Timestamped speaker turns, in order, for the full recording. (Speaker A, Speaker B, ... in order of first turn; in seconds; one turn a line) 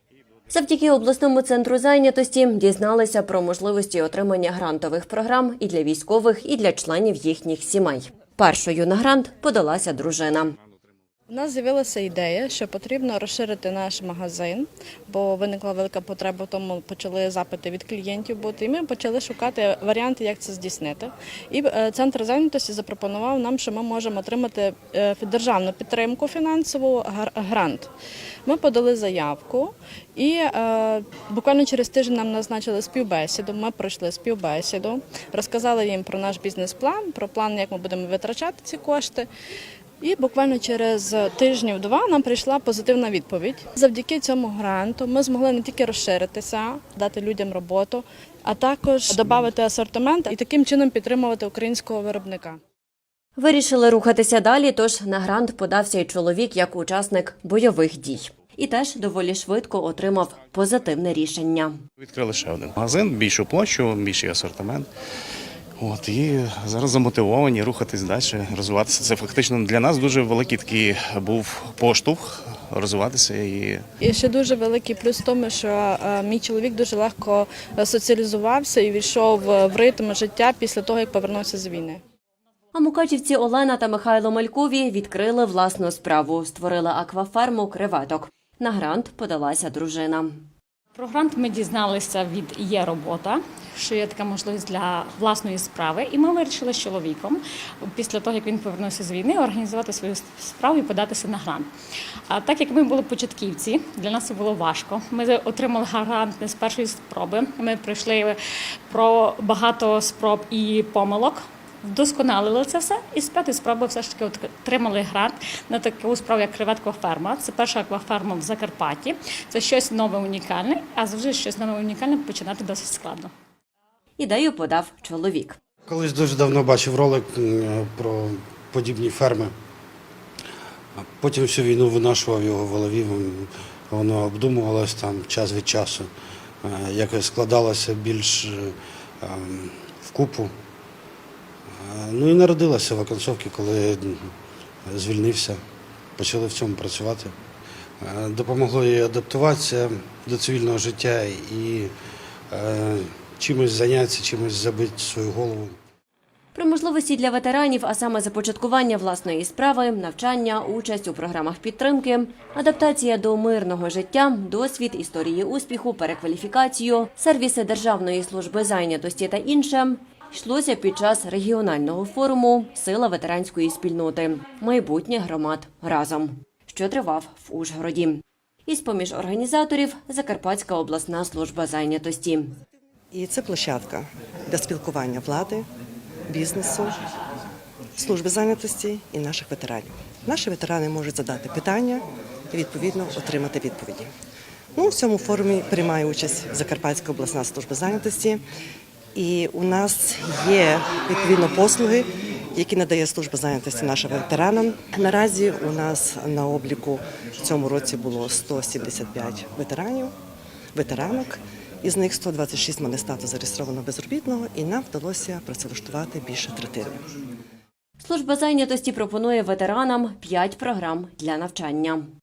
Speaker A: 0.5-10.5
Speaker B: 11.3-27.9
Speaker B: 28.5-39.3
Speaker B: 40.0-52.6
Speaker A: 53.4-61.8
Speaker C: 62.0-64.9
Speaker C: 65.8-73.8
Speaker B: 74.0-82.0
Speaker A: 82.7-90.5
Speaker D: 91.0-101.7
Speaker D: 102.3-108.4
Speaker D: 108.9-123.3
Speaker A: 124.2-125.6
Speaker E: 125.9-129.5
Speaker E: 131.0-136.1
Speaker E: 136.6-140.5
Speaker E: 141.7-144.3
Speaker E: 144.9-145.6
Speaker E: 146.2-147.3
Speaker E: 148.0-151.9
Speaker E: 152.5-155.8
Speaker A: 156.6-182.5
Speaker F: 183.1-185.7
Speaker F: 186.3-187.0
Speaker F: 188.0-194.1
Speaker F: 194.8-198.4
Speaker F: 199.2-210.1
Speaker F: 210.8-217.0
Speaker A: 218.0-222.1